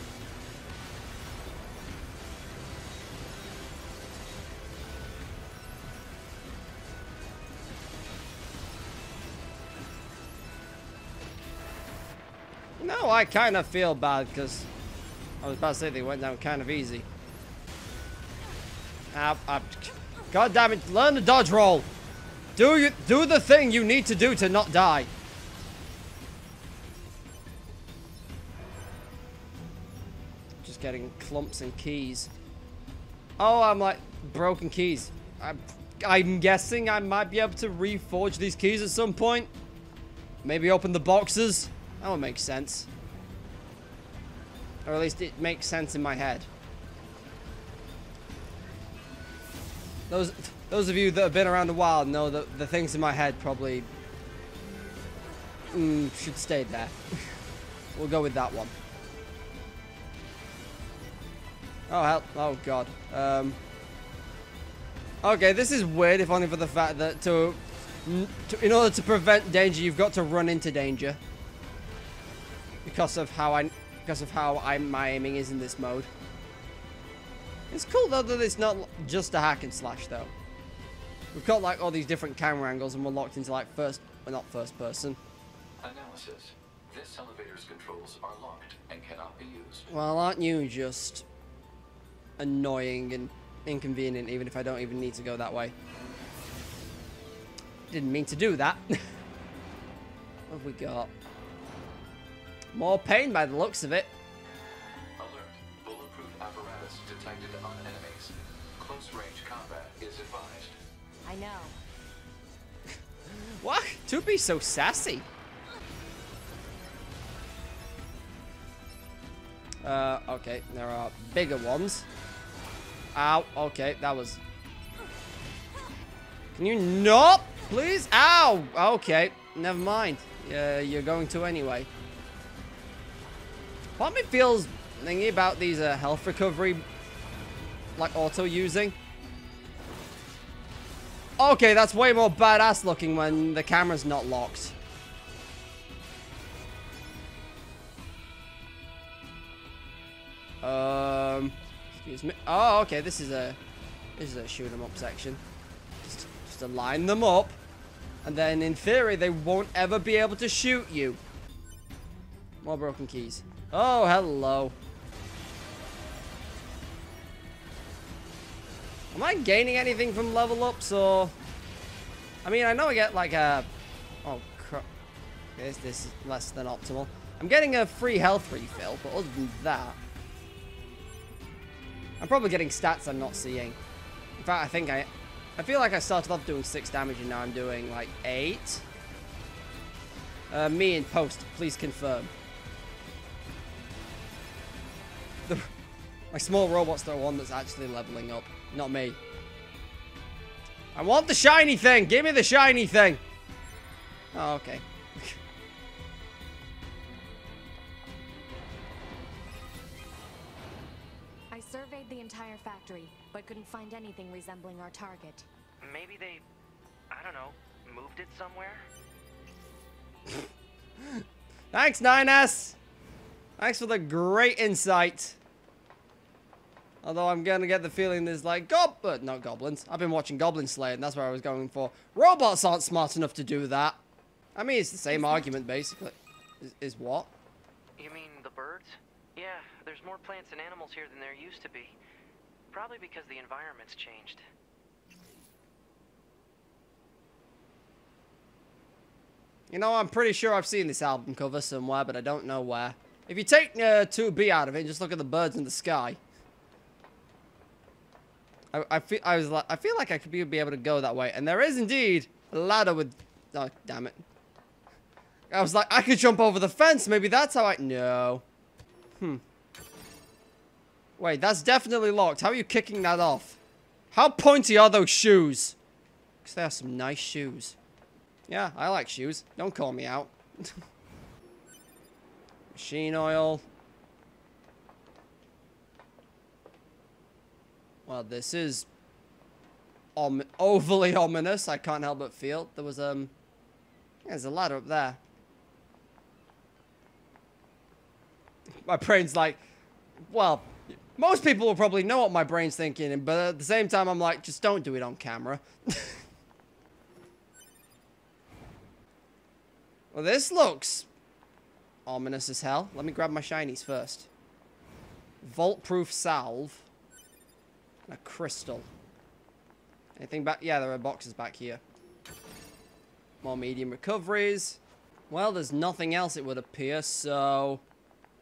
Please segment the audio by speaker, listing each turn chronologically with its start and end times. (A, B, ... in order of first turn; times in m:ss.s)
0:12.8-0:14.7 A
0:15.4-0:17.0 A
0:19.1-0:21.9 A
0:22.6-0:25.1 A
0:30.6-0:32.3 A
0:33.4-0:39.5 A
0:40.4-0:42.9 A
0:44.8-0:46.5 A
0:50.1-0:53.9 A
0:55.7-0:57.0 A
0:57.9-0:58.7 A
1:01.9-1:03.6 A
1:05.2-1:11.2 A
1:12.8-1:16.1 A
1:17.7-1:20.3 A
1:21.3-1:25.2 A
1:25.8-1:29.9 B
1:29.9-1:31.2 A
1:32.4-1:35.7 A
1:37.9-1:39.1 A
1:40.5-1:41.1 A
1:42.7-1:44.1 A
1:45.2-1:50.8 B
1:51.2-1:51.8 C
1:53.3-1:55.2 A
1:59.8-2:02.0 A
2:03.1-2:04.4 A
2:06.5-2:11.9 A
2:14.0-2:16.8 A
2:18.0-2:19.0 A
2:21.4-2:24.7 A
2:30.6-2:33.6 A
2:34.2-2:35.4 A
2:36.0-2:37.6 A
2:38.2-2:41.2 A
2:42.6-2:44.7 A
2:49.1-2:51.3 A
2:52.4-2:53.7 A
2:54.2-2:54.8 A
2:55.6-3:00.0 A
3:02.2-3:03.8 A
3:04.4-3:08.8 A
3:10.5-3:12.3 A
3:16.3-3:19.2 A
3:20.9-3:23.2 A
3:24.3-3:25.4 A
3:31.5-3:35.5 C
3:35.8-3:36.4 D
3:37.1-3:38.9 D
3:41.0-3:42.8 A
3:43.6-3:45.4 A
3:47.0-3:54.0 A
3:54.5-3:57.3 A
3:55.1-3:55.5 C
3:58.0-4:02.0 D
4:02.7-4:04.4 D
4:09.7-4:16.2 A
4:18.7-4:24.2 A
4:25.5-4:28.4 A
4:31.2-4:33.6 A
4:34.1-4:35.8 A
4:36.4-4:37.8 A
4:38.5-4:40.8 A
4:42.7-4:43.6 A
4:48.0-4:48.9 A
4:50.2-4:53.3 A
4:54.2-4:55.2 A
4:58.8-4:59.6 A
5:00.2-5:06.2 A
5:10.1-5:11.1 A
5:12.0-5:14.3 A
5:15.4-5:16.8 A
5:18.1-5:18.9 A
5:20.2-5:21.8 A
5:23.4-5:27.8 A